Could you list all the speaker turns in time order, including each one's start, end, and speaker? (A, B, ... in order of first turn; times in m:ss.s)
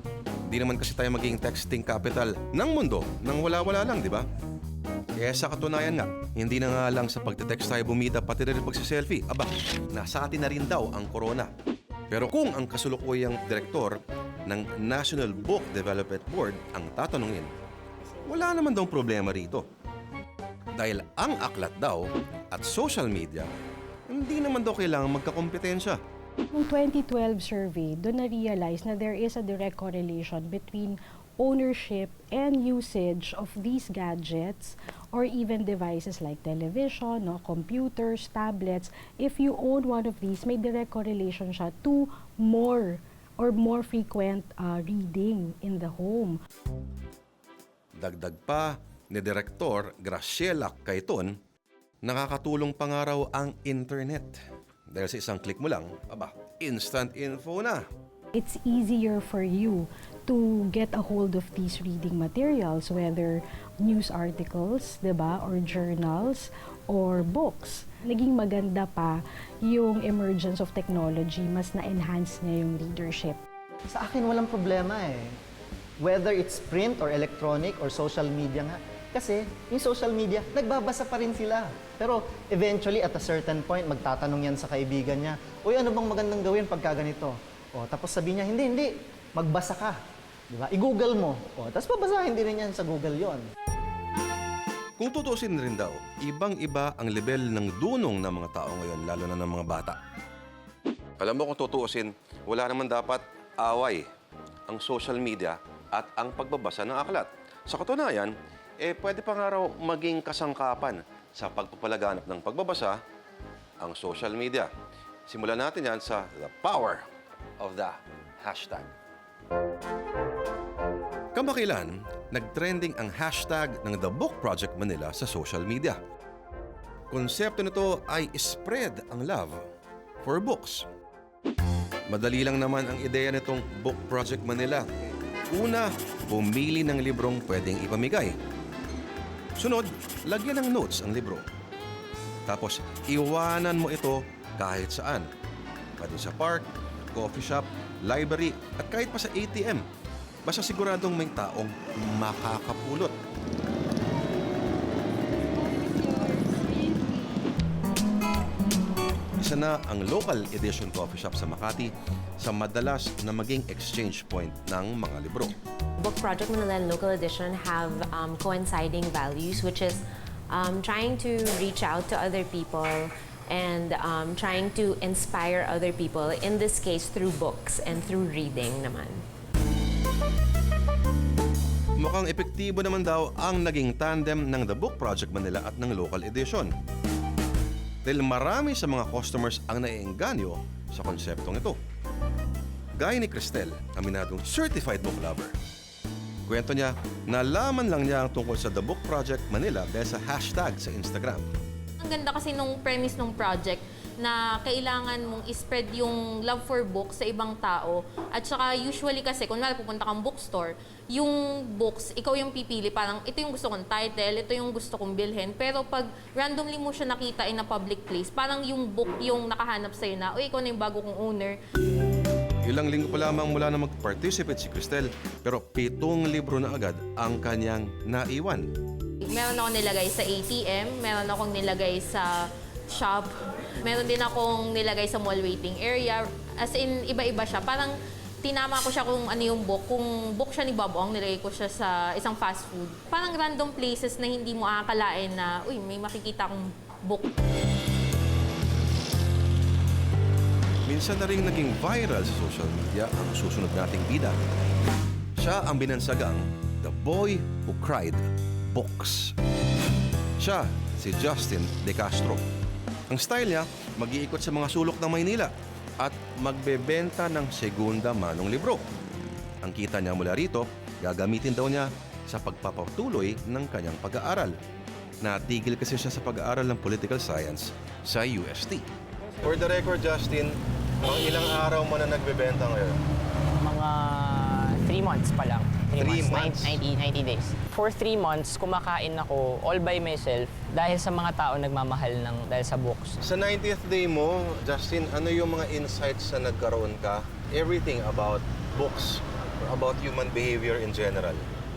0:00.5-0:04.2 A
0:05.2-0:11.5 A
0:12.1-0:17.5 A
0:18.3-0:19.6 A
0:20.8-0:23.5 A
0:24.1-0:26.0 A
0:26.5-0:46.4 B
0:48.0-0:51.3 A
0:52.0-0:54.4 A
0:54.9-0:57.8 A
0:58.3-1:13.4 B
1:13.9-1:15.3 C
1:16.0-1:30.0 C
1:30.5-1:33.4 C
1:35.0-1:40.0 A
1:41.2-1:44.1 A
1:44.7-1:53.0 A
1:53.8-1:54.7 A
1:55.3-1:57.0 A
1:57.6-1:58.9 A
2:01.3-2:06.0 A
2:07.1-2:09.6 A
2:10.2-2:10.9 A
2:12.1-2:14.9 A
2:15.5-2:18.4 A
2:19.6-2:21.4 A
2:22.5-2:25.3 A
2:26.0-2:29.8 A
2:30.5-2:33.2 A
2:39.4-2:41.9 A
2:42.4-2:45.5 A
2:46.0-2:59.2 D
3:02.0-3:06.7 A
3:08.0-3:11.8 A
3:13.0-3:15.6 A
3:16.5-3:21.5 A
3:22.0-3:41.6 E
3:42.7-3:48.7 A
3:49.2-3:52.3 E
3:52.9-3:53.3 E
3:53.8-3:57.9 E
3:58.4-4:07.3 E
4:10.9-4:14.4 A
4:15.4-4:19.3 A
4:20.4-4:22.4 A
4:23.1-4:28.9 A
4:29.6-4:34.6 A
4:35.2-4:38.9 A
4:39.4-4:43.0 A
4:43.6-4:53.2 F
4:46.0-4:46.8 A
4:53.2-5:01.5 A